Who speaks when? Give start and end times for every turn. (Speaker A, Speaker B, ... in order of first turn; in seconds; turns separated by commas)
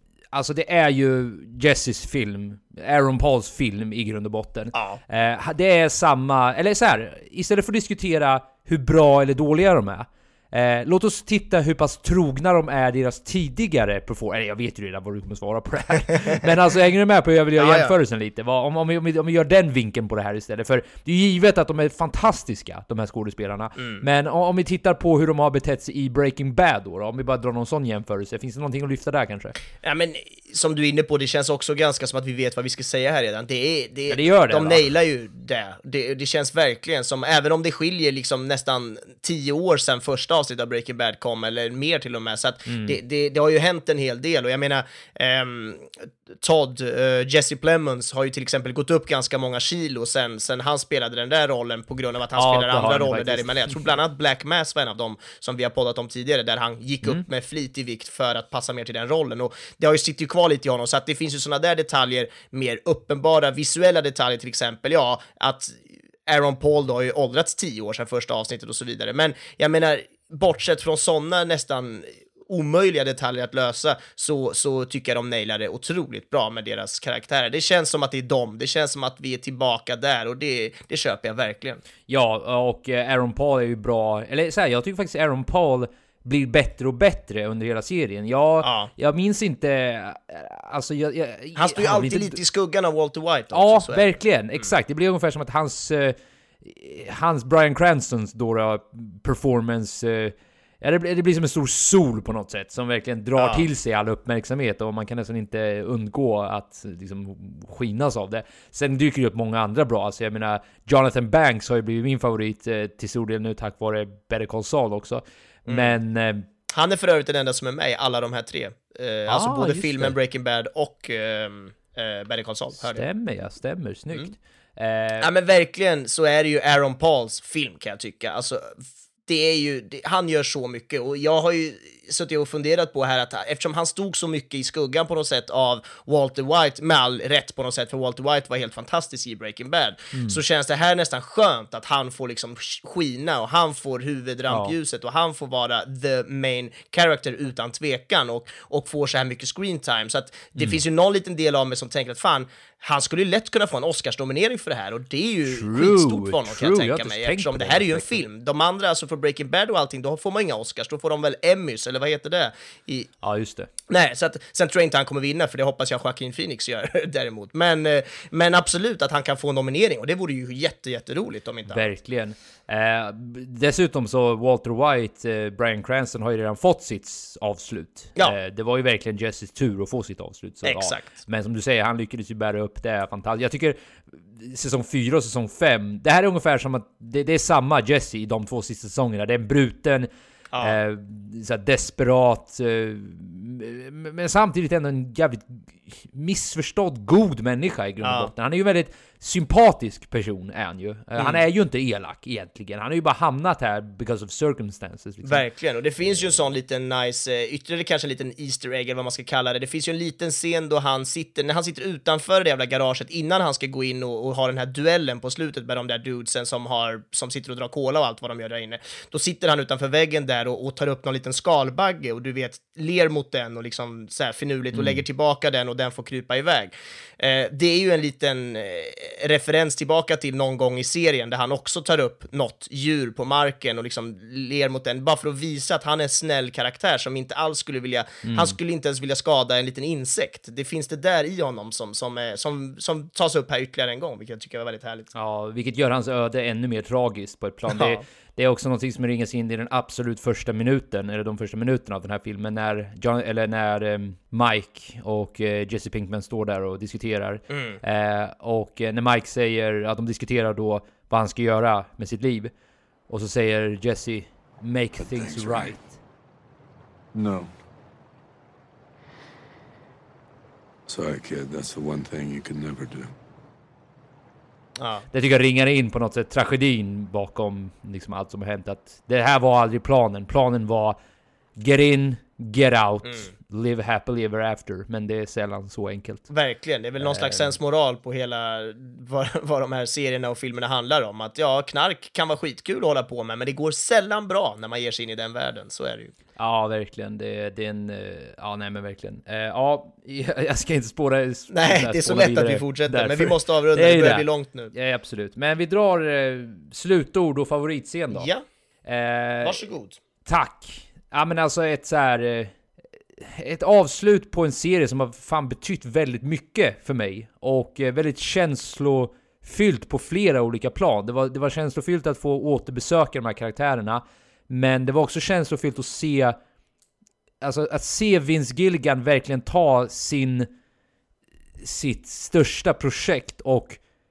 Speaker A: 0.3-29.5, Speaker B: 4.7-5.0, Speaker B: 17.6-17.9, Speaker B: 23.8-24.0, Speaker B: 29.8-81.8, Speaker A: 34.1-34.9, Speaker A: 42.7-43.0, Speaker A: 52.3-53.8, Speaker A: 82.1-92.4, Speaker B: 88.6-88.9, Speaker B: 91.5-94.7, Speaker A: 93.5-116.5, Speaker B: 103.4-103.6, Speaker B: 115.7-115.9, Speaker B: 116.7-123.1, Speaker A: 119.3-120.2, Speaker A: 122.8-125.3, Speaker B: 125.2-163.1, Speaker A: 140.1-140.4, Speaker A: 144.5-144.7, Speaker A: 155.5-158.2, Speaker A: 163.2-163.7, Speaker B: 163.9-171.8, Speaker A: 171.7-183.8, Speaker B: 180.6-181.1, Speaker A: 184.3-190.1, Speaker B: 190.5-190.8, Speaker A: 190.6-205.4, Speaker B: 198.0-198.3, Speaker B: 205.2-245.1, Speaker A: 224.7-225.0, Speaker A: 238.2-238.6, Speaker A: 245.1-262.5, Speaker B: 247.7-248.0, Speaker B: 257.5-257.8, Speaker A: 263.1-265.9, Speaker C: 265.0-265.8, Speaker C: 267.1-267.5, Speaker C: 270.9-273.1, Speaker B: 274.8-275.1, Speaker A: 275.1-280.9, Speaker A: 281.6-286.2, Speaker B: 286.3-296.1, Speaker A: 287.0-287.5, Speaker A: 296.4-308.3, Speaker B: 301.5-304.7, Speaker B: 308.1-308.4, Speaker A: 308.9-309.6, Speaker B: 309.4-310.0, Speaker A: 310.2-312.5, Speaker A: 313.2-326.4, Speaker A: 327.4-330.5, Speaker A: 331.6-333.8